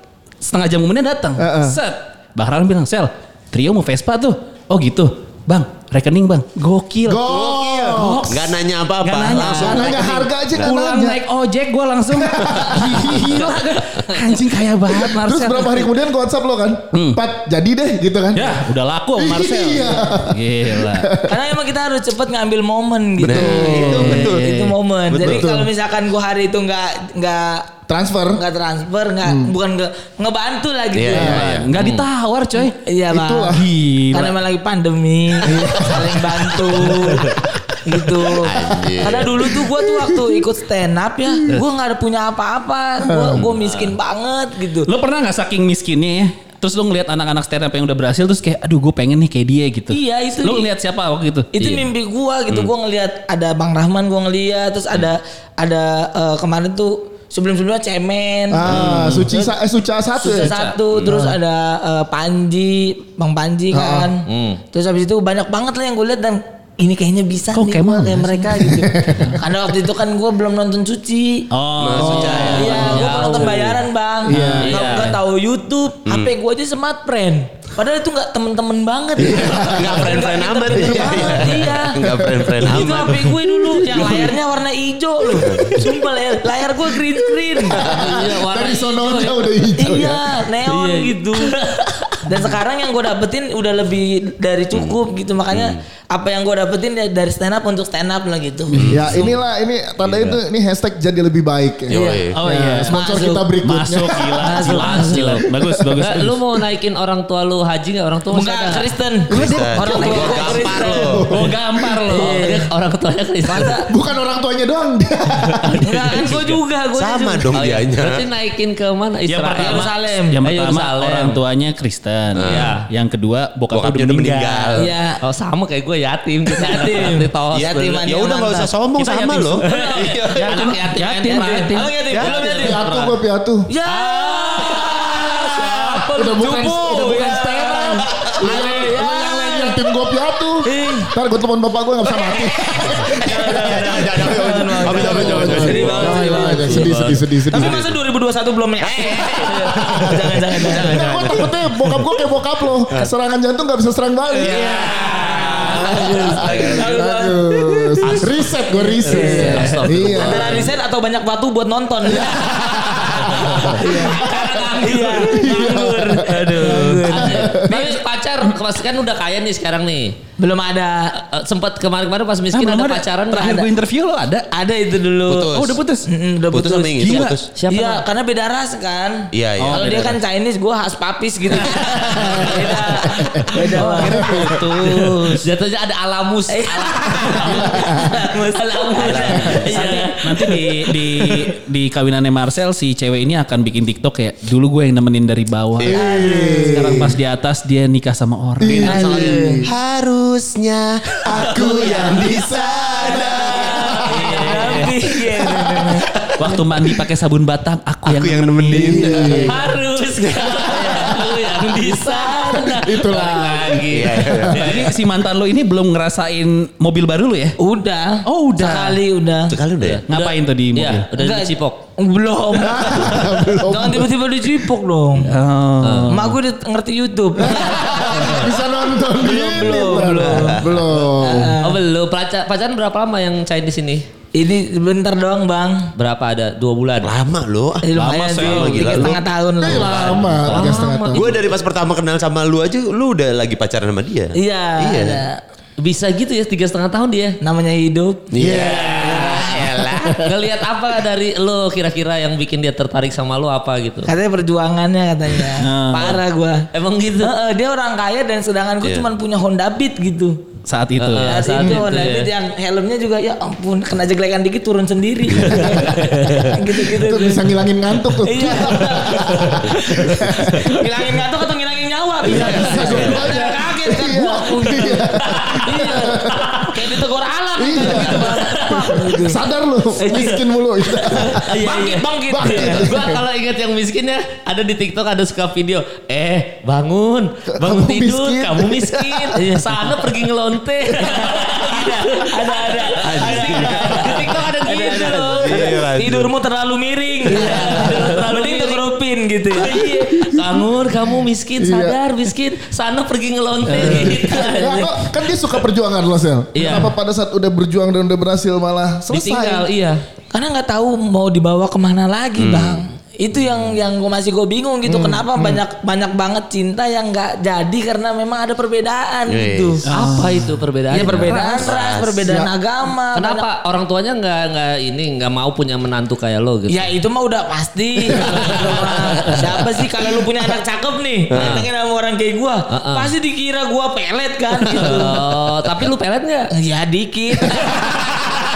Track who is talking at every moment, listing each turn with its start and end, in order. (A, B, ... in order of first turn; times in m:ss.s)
0:00.4-0:15.9 A
0:01.4-0:01.8 B
0:07.0-0:08.4 B
0:07.3-0:10.6 C
0:09.4-0:11.2 B
0:12.1-0:13.4 B
0:14.9-0:18.6 B
0:16.9-0:17.2 A
0:18.3-0:21.1 A
0:19.2-0:21.5 B
0:21.2-0:27.7 D
0:23.2-0:24.5 C
0:23.2-0:24.2 B
0:23.6-0:24.8 A
0:25.1-0:25.5 C
0:25.1-0:25.7 B
0:27.9-0:28.4 B
0:28.3-0:31.4 D
0:29.2-0:29.5 B
0:30.9-0:32.1 C
0:31.1-0:31.6 B
0:31.2-0:32.8 A
0:32.7-0:33.6 D
0:33.1-0:33.7 B
0:33.5-0:34.4 A
0:34.1-0:44.9 D
0:35.4-0:37.0 B
0:38.4-0:39.5 C
0:38.5-0:40.2 B
0:43.0-0:43.4 B
0:43.6-0:43.8 E
0:44.8-0:51.9 A
0:49.9-0:50.7 D
0:51.5-0:59.5 D
0:58.5-1:00.5 B
0:58.7-0:59.3 A
1:00.2-1:11.5 D
1:00.3-1:00.7 E
1:01.1-1:01.3 B
1:03.7-1:04.1 B
1:04.3-1:04.6 E
1:07.5-1:08.7 A
1:08.6-1:09.4 B
1:11.5-1:13.0 A
1:11.8-1:13.6 C
1:12.0-1:13.2 B
1:12.0-1:13.8 E
1:12.5-1:22.0 D
1:14.3-1:14.8 B
1:14.3-1:15.1 A
1:14.6-1:15.1 E
1:16.0-1:16.3 C
1:19.2-1:23.3 C
1:19.2-1:20.0 B
1:20.7-1:22.8 B
1:22.6-1:28.2 D
1:23.9-1:24.3 C
1:25.4-1:25.8 C
1:27.6-1:30.4 B
1:27.8-1:29.4 E
1:29.8-1:31.6 D
1:30.6-1:32.2 E
1:32.2-1:38.8 D
1:35.5-1:35.8 C
1:38.7-1:39.4 C
1:38.9-1:44.6 B
1:41.9-1:42.4 C
1:41.9-1:42.2 D
1:42.3-1:43.0 A
1:42.9-1:43.5 D
1:43.6-1:46.4 A
1:44.4-1:45.2 D
1:44.6-1:48.9 E
1:45.6-1:46.0 B
1:48.3-1:51.2 D
1:49.3-1:50.0 B
1:49.3-1:51.3 C
1:49.9-1:50.8 E
1:50.8-1:51.6 B
1:51.3-1:52.4 A
1:52.0-1:53.8 E
1:52.1-1:52.7 D
1:53.4-1:53.9 D
1:53.9-1:55.8 B
1:55.8-1:57.5 D
1:56.0-1:56.5 E
1:56.1-1:58.2 C
1:57.5-1:59.9 E
1:59.3-2:04.8 A
1:59.6-2:00.4 D
2:00.4-2:01.4 E
2:02.3-2:02.7 C
2:02.4-2:02.9 E
2:03.7-2:04.9 C
2:04.7-2:05.2 D
2:05.2-2:08.1 E
2:06.6-2:08.7 D
2:07.5-2:10.6 C
2:09.0-2:13.1 E
2:09.0-2:09.6 A
2:09.6-2:10.5 D
2:10.4-2:12.0 A
2:11.2-2:12.8 D
2:12.4-2:13.7 B
2:13.7-2:19.9 D
2:13.9-2:16.0 E
2:16.1-2:27.8 B
2:20.6-2:21.1 D
2:22.2-2:31.2 D
2:23.2-2:26.2 C
2:25.2-2:27.2 E
2:27.5-2:28.0 C
2:28.8-2:32.0 C
2:30.7-2:34.8 B
2:34.4-2:36.1 A
2:34.4-2:37.0 C
2:34.7-2:36.9 E
2:35.5-2:42.5 D
2:35.8-2:40.7 B
2:39.0-2:40.6 E
2:39.3-2:39.9 A
2:40.0-2:40.4 C
2:42.0-2:44.6 B
2:43.2-2:48.0 D
2:43.6-2:45.5 E
2:45.1-2:47.7 B
2:46.6-2:50.2 E
2:50.4-2:51.2 D
2:51.2-2:53.7 E
2:52.5-2:54.5 A
2:53.4-2:53.6 D
2:54.5-2:55.5 D
2:55.3-2:55.8 C
2:55.5-2:56.1 A
2:56.1-3:04.5 D
2:56.5-2:57.5 C
2:57.0-2:57.4 A
2:57.5-2:58.0 E
2:59.3-3:00.0 C
2:59.6-3:00.1 A
3:01.7-3:02.5 A
3:02.1-3:02.5 B
3:03.0-3:04.7 B
3:03.5-3:05.4 A
3:04.8-3:10.6 E
3:06.5-3:10.6 D
3:07.5-3:08.2 B
3:09.7-3:16.0 A
3:15.8-3:16.5 C
3:15.8-3:17.2 B
3:15.9-3:17.0 D
3:16.7-3:19.2 A
3:18.6-3:19.7 B
3:18.8-3:24.5 C
3:18.8-3:19.6 D
3:21.2-3:24.4 B
3:21.6-3:22.1 E
3:24.0-3:24.9 E
3:24.1-3:26.1 D
3:25.4-3:25.9 B
3:26.1-3:26.5 C
3:26.4-3:29.5 A
3:28.0-3:29.5 C
3:28.7-3:29.6 B
3:29.4-3:34.9 E
3:30.7-3:32.9 D
3:32.8-3:34.4 B
3:33.9-3:34.7 C
3:34.5-3:37.6 A
3:37.6-3:39.6 D
3:38.2-3:39.0 A
3:39.5-3:40.0 C
3:39.8-3:41.8 E
3:40.1-3:41.1 A
3:41.1-3:45.4 D
3:42.6-3:44.1 B
3:45.2-3:46.4 A
3:45.8-3:46.2 E
3:46.1-3:48.4 D
3:47.4-3:51.6 B
3:49.2-3:50.6 D
3:49.6-3:51.1 C
3:51.2-3:51.8 D
3:51.6-3:54.0 E
3:54.3-3:55.9 D
3:56.0-3:57.1 E
3:57.0-4:05.2 C
3:57.8-4:00.4 D
3:57.9-3:59.2 A
3:59.6-4:01.3 B
4:00.4-4:01.4 E
4:04.3-4:05.4 D
4:05.8-4:07.4 E
4:07.4-4:08.3 D
4:08.3-4:10.2 C
4:08.4-4:10.0 B
4:08.4-4:14.1 E
4:09.0-4:09.7 D
4:14.0-4:16.7 D
4:15.6-4:16.2 A
4:16.7-4:17.3 E
4:17.2-4:20.4 D
4:20.7-4:21.4 A
4:21.0-4:22.3 E
4:21.2-4:27.5 D
4:21.6-4:21.8 B
4:25.5-4:26.0 B
4:26.6-4:30.7 B
4:28.1-4:39.4 D
4:32.2-4:36.5 B
4:32.5-4:33.3 E
4:35.2-4:37.0 E
4:37.6-4:41.4 B
4:37.7-4:39.1 E
4:40.0-4:40.4 D
4:41.0-4:43.0 D
4:41.1-4:55.7 E
4:42.3-4:43.2 B
4:47.5-4:49.7 B
4:51.0-4:59.9 D
4:53.0-4:54.4 C
4:55.3-4:56.3 C
4:57.2-4:58.8 E
4:57.5-4:57.8 B
4:59.5-5:05.0 E
5:00.0-5:00.7 B
5:01.6-5:02.0 B
5:03.7-5:04.3 A
5:03.7-5:09.7 B
5:04.1-5:04.8 D
5:06.5-5:06.9 E
5:09.1-5:10.0 E
5:10.3-5:19.8 D
5:12.4-5:12.8 C
5:14.8-5:15.6 B
5:19.3-5:19.8 C
5:19.8-5:20.5 A
5:19.9-5:21.8 E
5:20.9-5:23.4 D
5:21.1-5:21.4 A
5:21.3-5:22.3 C
5:22.2-5:22.5 B
5:23.1-5:26.9 E
5:26.7-5:35.2 D
5:28.2-5:29.5 E
5:31.3-5:31.6 C
5:31.3-5:31.6 E
5:32.7-5:33.1 E
5:34.7-5:36.5 E
5:36.5-5:37.9 D